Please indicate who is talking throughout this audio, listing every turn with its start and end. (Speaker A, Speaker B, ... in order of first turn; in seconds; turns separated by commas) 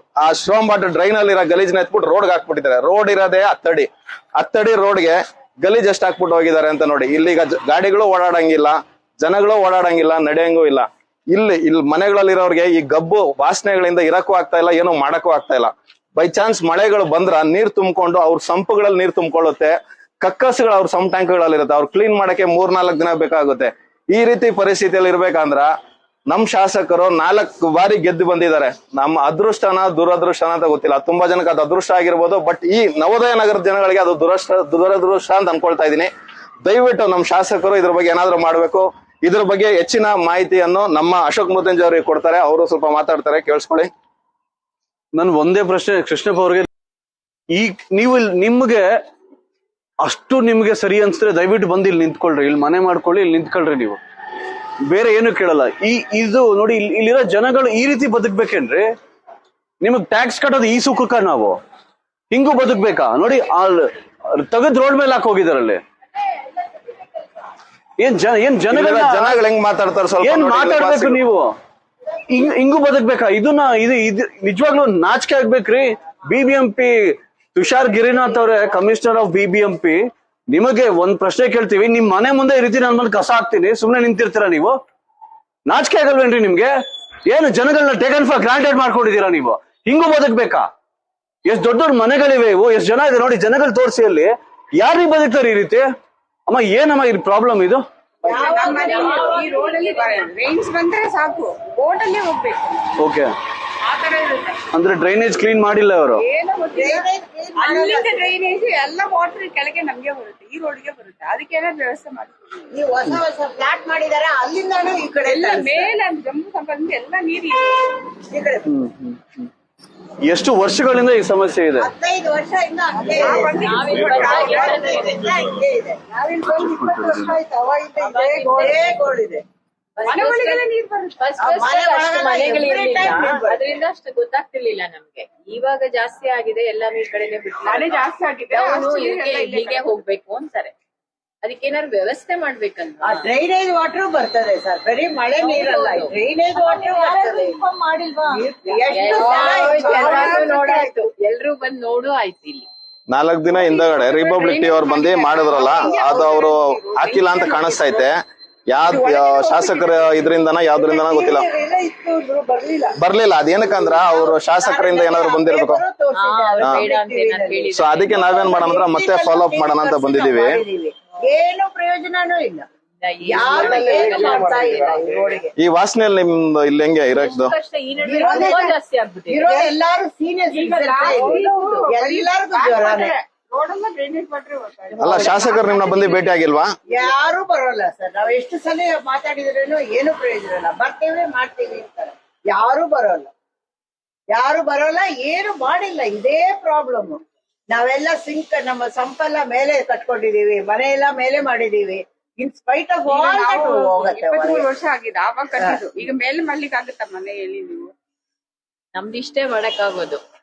Speaker A: 0.2-25.7, Speaker A: 26.3-36.1, Speaker A: 36.6-43.9, Speaker B: 45.1-46.7, Speaker B: 47.5-48.9, Speaker B: 50.0-54.0, Speaker B: 54.8-58.9, Speaker B: 59.8-61.6, Speaker B: 62.3-65.8, Speaker B: 68.0-69.4, Speaker A: 68.7-71.2, Speaker B: 70.2-71.5, Speaker B: 72.3-84.8, Speaker B: 85.7-90.7, Speaker B: 91.5-95.9, Speaker B: 96.5-97.8, Speaker C: 98.2-99.6, Speaker D: 98.2-103.0, Speaker E: 98.8-99.9, Speaker B: 103.0-103.3, Speaker D: 103.8-104.6, Speaker B: 104.7-106.2, Speaker D: 106.2-112.7, Speaker C: 106.7-108.3, Speaker C: 112.7-115.9, Speaker D: 115.2-118.0, Speaker C: 118.3-118.7, Speaker B: 118.7-119.5, Speaker B: 120.3-121.9, Speaker C: 121.8-126.1, Speaker D: 123.2-125.0, Speaker E: 123.6-125.2, Speaker B: 126.4-127.4, Speaker C: 127.5-129.4, Speaker E: 128.0-128.9, Speaker D: 128.0-128.7, Speaker E: 130.0-130.7, Speaker D: 130.0-131.2, Speaker E: 131.2-140.7, Speaker C: 131.4-133.7, Speaker D: 137.7-139.9, Speaker E: 141.4-143.3, Speaker C: 143.0-147.6, Speaker E: 145.4-146.1, Speaker C: 148.2-150.6, Speaker E: 148.9-152.7, Speaker D: 149.0-150.9, Speaker A: 153.1-161.5, Speaker D: 153.5-158.1, Speaker C: 155.6-156.2, Speaker D: 158.9-160.3, Speaker C: 160.8-163.0, Speaker A: 163.0-165.8, Speaker C: 163.6-172.7, Speaker E: 166.2-168.4, Speaker A: 166.6-166.9, Speaker A: 167.8-170.6, Speaker E: 173.0-174.9, Speaker C: 173.2-175.5, Speaker A: 175.6-177.5, Speaker E: 177.1-179.6, Speaker C: 178.0-178.7, Speaker D: 178.2-178.7, Speaker C: 179.3-183.2, Speaker D: 180.5-186.3, Speaker E: 180.9-181.9, Speaker E: 185.0-185.8, Speaker A: 185.0-186.8, Speaker C: 186.9-193.3, Speaker C: 194.3-204.7, Speaker D: 203.1-207.9, Speaker E: 208.9-210.2